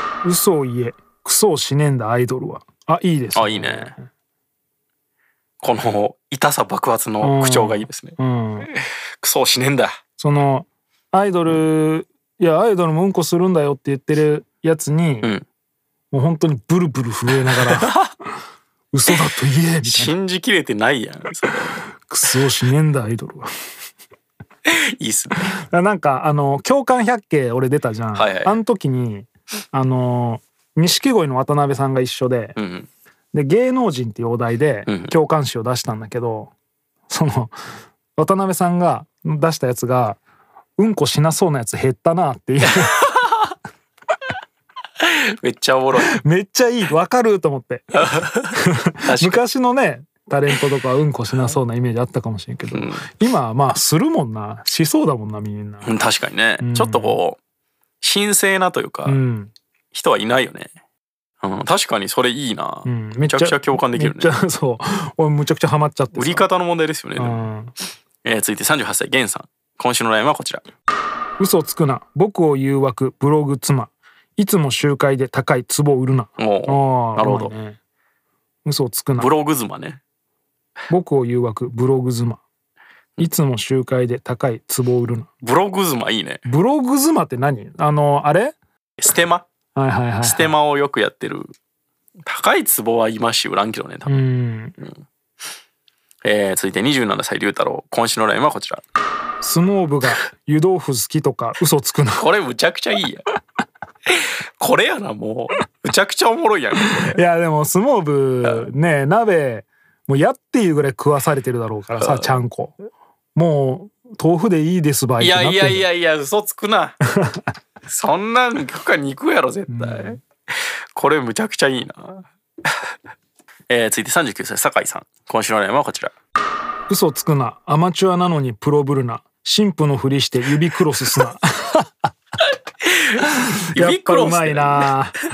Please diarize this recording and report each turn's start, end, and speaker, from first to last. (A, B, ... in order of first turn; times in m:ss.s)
0:00.2-0:04.1 A
0:03.4-0:04.0 B
0:05.6-0:10.0 B
0:07.2-0:08.7 A
0:10.2-0:15.3 A
0:16.1-0:18.0 A
0:17.6-0:18.1 B
0:18.9-0:20.1 A
0:19.8-0:21.8 B
0:22.0-0:23.5 A
0:24.7-0:25.5 B
0:25.4-0:32.6 A
0:28.2-0:28.6 B
0:32.6-0:32.9 B
0:33.3-0:36.5 A
0:34.9-0:35.1 B
0:37.1-0:37.6 A
0:38.2-0:40.2 A
0:40.8-0:43.0 A
0:42.8-0:43.2 B
0:45.0-0:46.1 B
0:46.2-0:55.9 A
0:48.1-0:48.5 B
0:49.0-0:49.4 B
0:52.7-0:53.1 B
0:55.8-0:57.4 B
0:56.6-0:57.2 A
0:58.0-0:59.2 B
0:59.1-0:59.5 A
0:59.9-1:00.7 B
1:01.4-1:04.3 B
1:02.8-1:06.5 A
1:06.2-1:07.5 B
1:07.2-1:07.7 A
1:08.2-1:10.6 B
1:11.4-1:17.8 A
1:16.4-1:17.5 B
1:18.6-1:19.3 A
1:19.2-1:20.0 B
1:20.9-1:22.4 A
1:23.2-1:25.3 A
1:25.4-1:26.4 B
1:26.4-1:28.6 A
1:29.0-1:29.5 B
1:29.8-1:30.5 A
1:30.2-1:31.5 B
1:32.3-1:34.3 B
1:34.1-1:34.8 A
1:36.2-1:38.8 B
1:39.4-1:42.3 A
1:42.2-1:43.2 B
1:44.2-1:47.2 B
1:47.1-1:52.8 A
1:52.0-1:52.4 B
1:53.4-1:55.8 A
1:55.2-1:57.0 B
1:57.2-1:57.4 A
1:57.9-2:00.2 B
1:59.7-2:00.2 A
2:01.0-2:02.2 B
2:03.7-2:06.1 B
2:06.9-2:11.9 A
2:13.2-2:15.2 A
2:13.7-2:14.9 B